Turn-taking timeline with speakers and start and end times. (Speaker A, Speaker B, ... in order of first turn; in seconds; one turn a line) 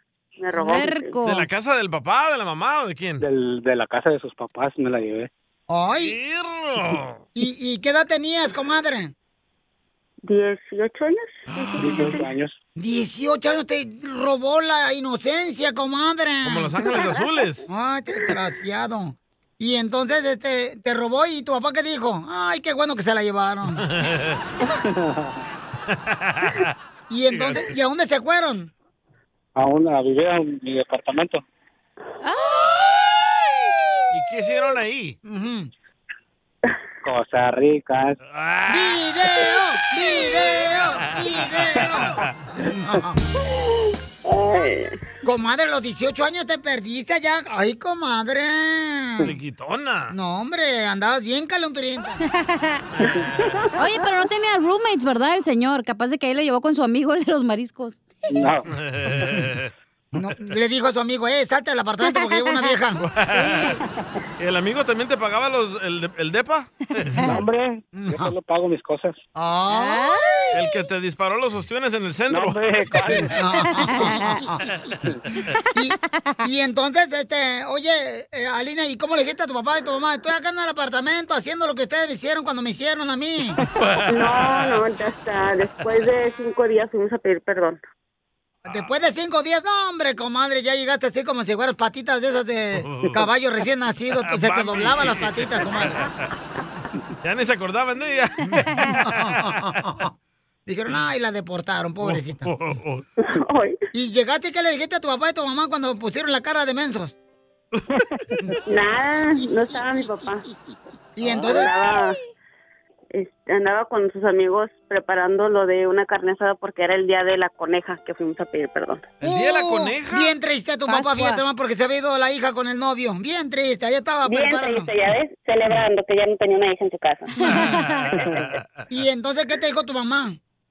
Speaker A: 0.4-1.2
Speaker B: 0.6-1.5
Speaker C: 1.2-3.2
Speaker D: 3.2-5.3
Speaker E: 5.7-6.2
Speaker C: 6.0-7.2
Speaker E: 7.3-9.1
Speaker A: 10.2-12.3
Speaker C: 11.5-12.1
Speaker D: 11.8-12.6
Speaker E: 11.9-12.2
Speaker E: 12.8-16.8
Speaker C: 16.4-17.7
Speaker A: 16.9-17.2
Speaker E: 17.7-23.8
Speaker C: 23.8-24.4
Speaker D: 24.8-25.4
Speaker C: 26.1-26.6
Speaker E: 27.1-28.7
Speaker C: 27.3-27.7
Speaker D: 29.6-31.4
Speaker B: 32.2-32.8
Speaker C: 34.1-35.2
Speaker E: 35.3-35.7
Speaker D: 37.0-38.2
Speaker C: 38.3-39.1
Speaker E: 38.7-43.2
Speaker C: 40.5-42.3
Speaker A: 43.6-45.0
Speaker E: 45.2-49.3
Speaker C: 49.2-50.1
Speaker E: 50.1-52.2
Speaker B: 52.4-52.8
Speaker C: 53.0-53.4
Speaker A: 53.1-53.7
Speaker B: 53.8-58.0
Speaker D: 58.4-58.7
Speaker C: 58.7-59.7
Speaker E: 60.1-63.0
Speaker B: 62.0-62.7
Speaker C: 63.0-63.8
Speaker B: 63.3-63.8
Speaker C: 64.4-67.2
Speaker D: 67.2-69.2
Speaker E: 67.9-68.3
Speaker E: 69.4-70.6
Speaker B: 69.7-70.5
Speaker C: 70.5-72.7
Speaker D: 72.3-73.5
Speaker E: 73.2-74.6
Speaker B: 73.7-74.4
Speaker E: 75.7-83.6
Speaker C: 83.7-84.8
Speaker A: 84.1-87.8
Speaker C: 88.6-88.9
Speaker E: 88.7-96.0
Speaker C: 92.8-93.3
Speaker C: 94.3-96.1
Speaker C: 97.2-99.3
Speaker E: 99.0-100.1
Speaker E: 100.7-102.5
Speaker C: 102.0-103.0
Speaker A: 103.2-103.8
Speaker E: 103.9-107.1
Speaker D: 107.9-108.2
Speaker A: 108.7-110.5
Speaker E: 111.2-111.7
Speaker A: 111.4-112.2
Speaker A: 113.1-119.1
Speaker C: 119.2-120.3
Speaker E: 119.2-124.9
Speaker B: 120.9-121.4
Speaker A: 124.2-127.3
Speaker B: 127.4-128.1
Speaker C: 127.4-128.6
Speaker E: 128.9-130.4